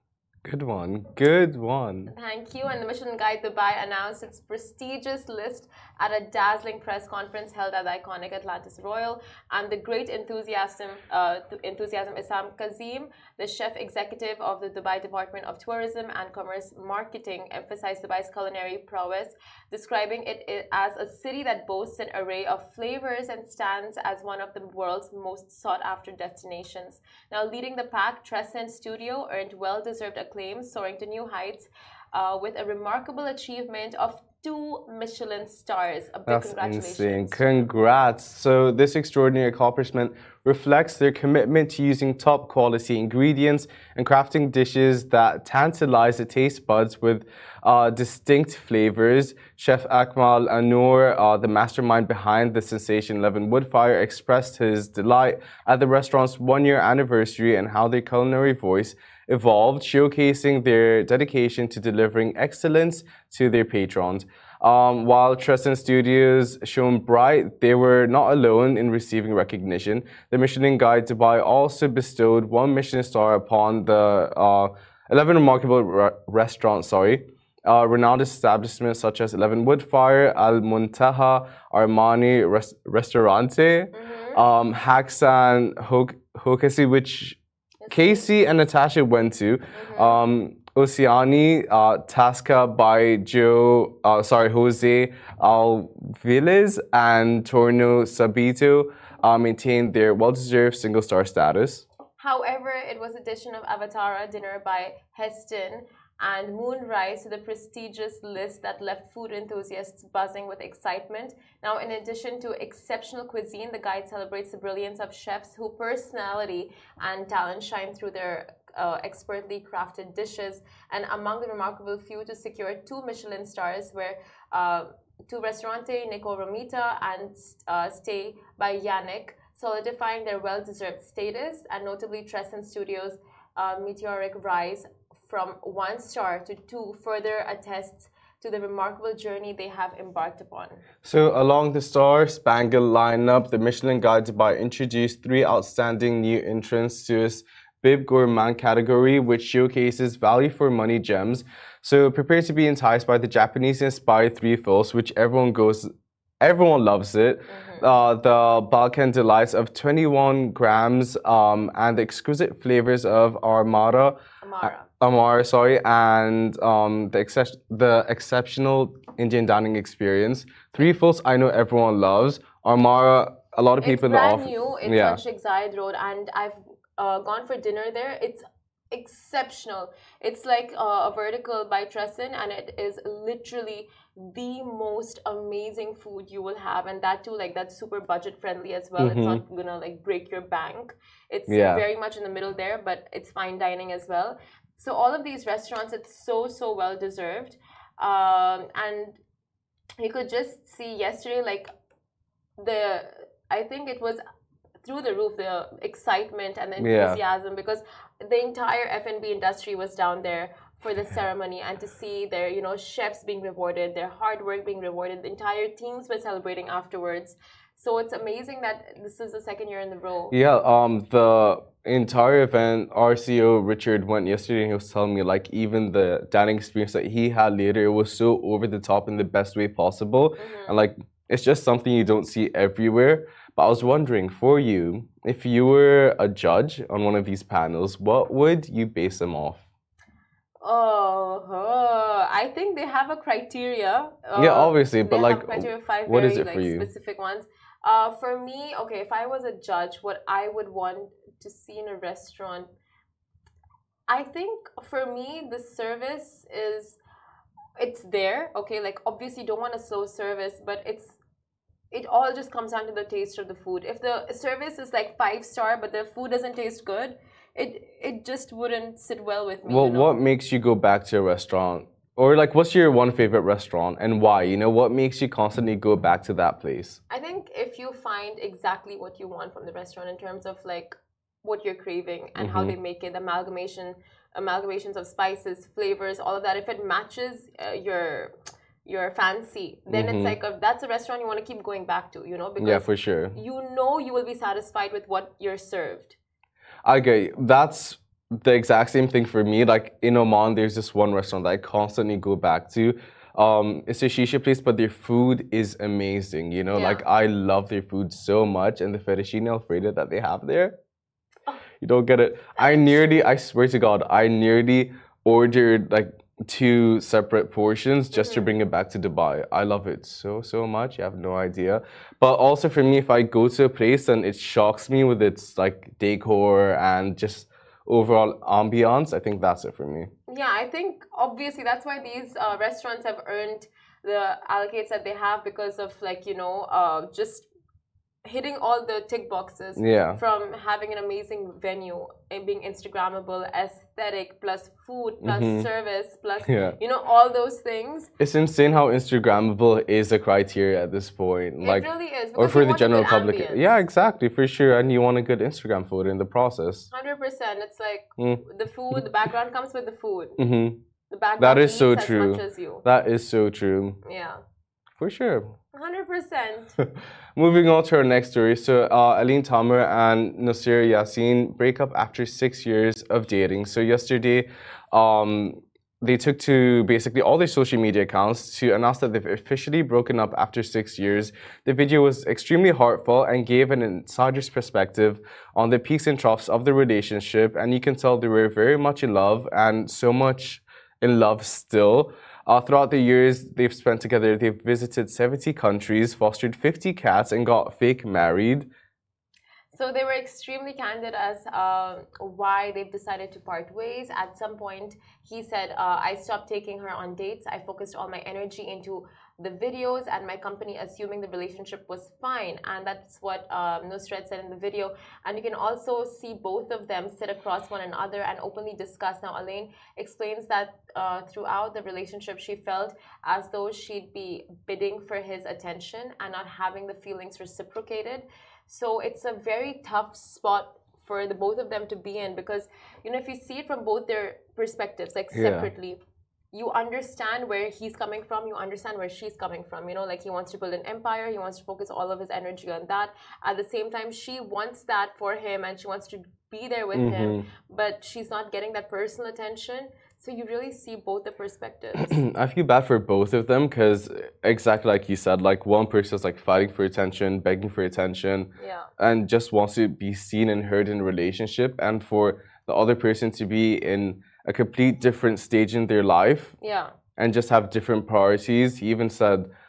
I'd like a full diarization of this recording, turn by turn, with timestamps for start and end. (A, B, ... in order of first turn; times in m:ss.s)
0:00.4-0:02.1 A
0:02.1-0:37.5 B
0:36.3-1:27.4 A
1:23.9-1:24.4 B
1:27.8-1:28.3 B
1:27.9-1:41.8 A
1:29.7-1:30.2 B
1:42.2-2:20.8 B
2:21.0-2:35.9 A
2:36.4-2:55.2 A
2:37.5-2:37.9 B
2:44.4-2:44.9 B
2:53.8-3:19.2 B
3:09.0-3:09.4 A
3:11.5-3:11.8 A
3:20.0-3:21.7 B
3:22.6-3:24.2 B
3:24.8-3:40.4 B
3:26.8-3:27.2 A
3:40.3-3:59.6 A
3:50.4-3:50.8 B
4:00.6-4:12.7 B
4:04.4-4:06.9 A
4:14.1-4:17.0 B
4:17.8-4:21.2 B
4:21.9-4:30.1 B
4:29.7-4:37.0 A
4:37.1-4:48.3 B
4:42.4-4:42.8 A
4:48.8-4:56.2 B
4:49.9-4:50.4 A
4:52.6-4:53.4 A
4:56.8-5:10.7 A
5:06.7-5:07.0 B
5:11.8-5:30.1 A
5:18.1-5:18.5 B
5:30.3-5:37.5 B
5:38.2-5:48.1 B
5:39.8-5:40.2 A
5:45.2-5:45.7 A
5:46.5-5:46.8 A
5:48.2-5:56.9 A
5:51.6-5:53.8 B
5:56.9-6:00.4 B
6:00.4-6:00.8 A
6:01.1-6:02.8 B
6:01.4-6:04.0 A
6:04.0-6:04.4 B
6:05.0-6:05.5 A
6:05.7-6:06.8 B
6:06.8-6:38.7 A
6:39.7-7:16.0 B
7:15.3-7:15.7 A
7:16.5-7:32.2 B
7:27.0-7:27.4 A
7:32.0-7:46.5 A
7:38.6-7:38.9 B
7:46.6-7:46.9 B
7:47.2-7:49.5 A